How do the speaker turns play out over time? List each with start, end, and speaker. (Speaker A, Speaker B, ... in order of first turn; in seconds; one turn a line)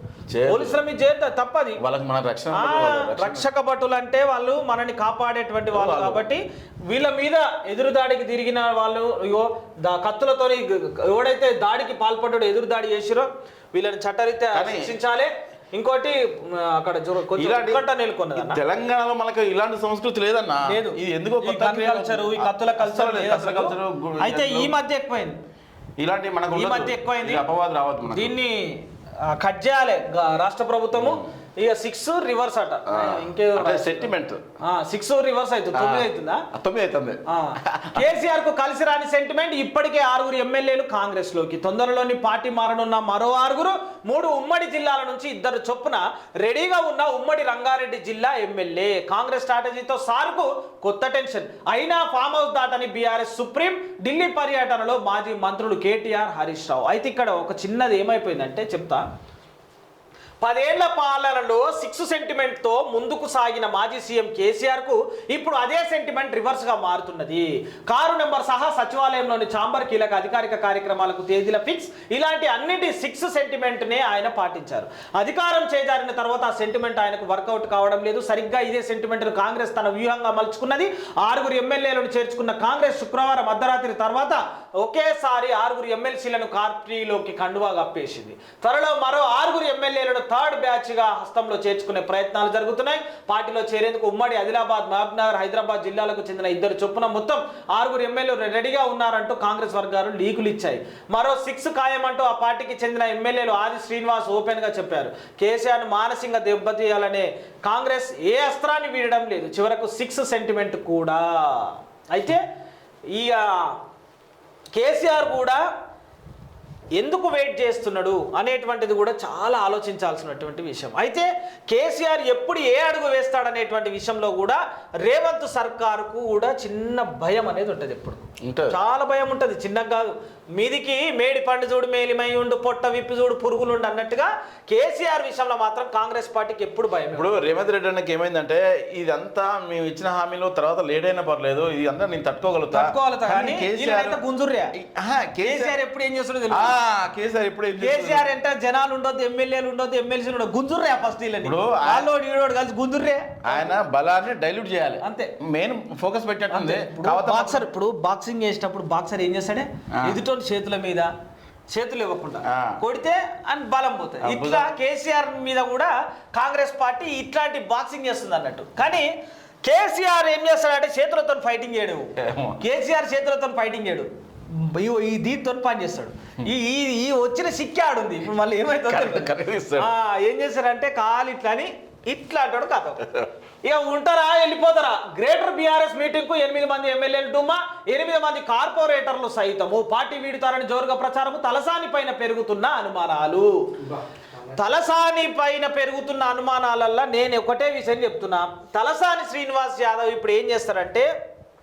Speaker A: 0.3-0.8
Speaker B: 0.5-1.8
Speaker A: 1.8-3.5
Speaker B: 2.5-18.6
Speaker A: 5.7-6.3
Speaker A: 14.5-14.9
Speaker A: 17.4-17.8
Speaker A: 18.3-24.8
Speaker B: 20.6-25.4
Speaker A: 26.0-28.4
Speaker B: 26.5-27.4
Speaker B: 28.1-36.5
Speaker A: 31.0-31.2
Speaker A: 32.9-34.4
Speaker A: 35.7-38.1
Speaker B: 37.3-59.0
Speaker B: 60.4-112.4
Speaker B: 113.1-113.8
Speaker B: 114.8-115.6
Speaker B: 117.0-137.4
Speaker A: 128.4-128.8
Speaker A: 137.1-144.2
Speaker B: 142.7-144.7
Speaker A: 144.7-145.8
Speaker B: 145.4-146.8
Speaker A: 146.5-148.3
Speaker B: 147.8-153.7
Speaker A: 151.4-152.1
Speaker A: 153.4-157.7
Speaker B: 155.0-155.3
Speaker B: 156.5-161.1
Speaker A: 159.9-160.2
Speaker B: 161.7-169.1
Speaker A: 162.5-162.8
Speaker A: 164.2-164.7
Speaker B: 169.6-194.0
Speaker A: 172.2-172.6
Speaker A: 178.8-179.9
Speaker B: 194.5-201.1